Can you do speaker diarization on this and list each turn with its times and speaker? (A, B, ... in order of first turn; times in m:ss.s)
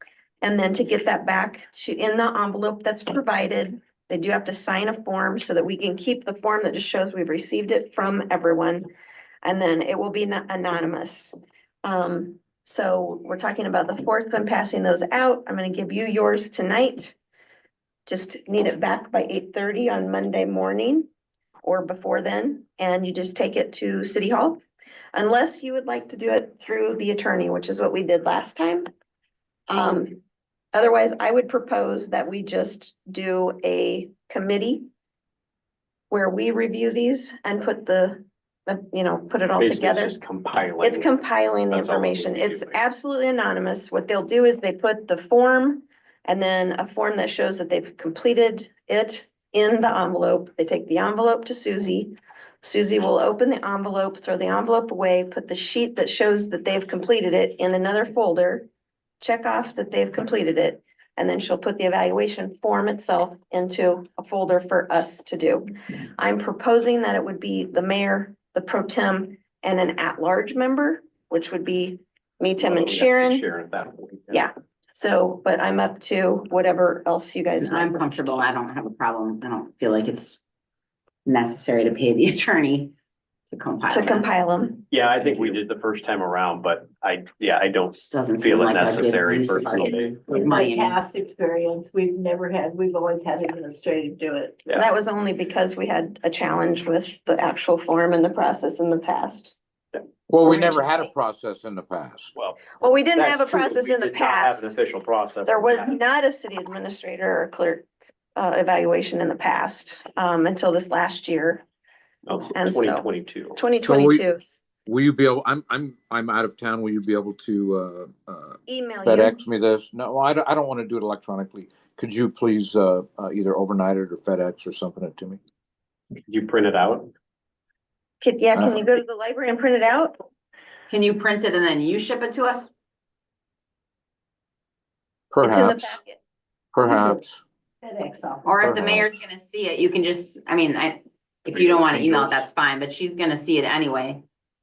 0:00.4-0:08.9 A
0:09.4-0:17.1 A
0:18.0-0:21.1 A
0:21.6-0:24.6 A
0:25.1-0:28.9 A
0:29.7-0:30.2 A
0:30.7-0:34.9 A
0:36.1-0:40.2 A
0:39.6-0:41.1 B
0:40.8-0:58.6 A
0:41.7-0:42.8 B
0:59.2-1:13.4 A
1:12.6-1:14.4 B
1:14.3-1:18.4 A
1:17.6-1:20.4 C
1:21.2-1:22.9 C
1:23.5-1:24.3 C
1:23.9-1:24.8 A
1:24.9-1:30.2 B
1:28.0-1:31.0 C
1:30.3-1:34.6 D
1:34.7-1:39.5 A
1:40.3-1:42.3 E
1:40.4-1:40.8 A
1:42.3-1:45.9 B
1:42.8-1:44.7 A
1:45.4-1:51.6 A
1:52.2-1:53.6 B
1:52.5-1:54.5 A
1:53.8-1:54.2 E
1:54.8-2:05.4 E
1:58.6-1:59.4 A
2:06.3-2:07.1 B
2:08.2-2:10.2 A
2:08.5-2:08.8 E
2:10.9-2:12.7 C
2:15.3-2:16.0 E
2:15.4-2:16.2 A
2:16.7-2:17.4 E
2:16.8-2:17.1 D
2:17.8-2:18.5 D
2:18.4-2:24.2 C
2:18.6-2:19.2 E
2:21.6-2:22.4 E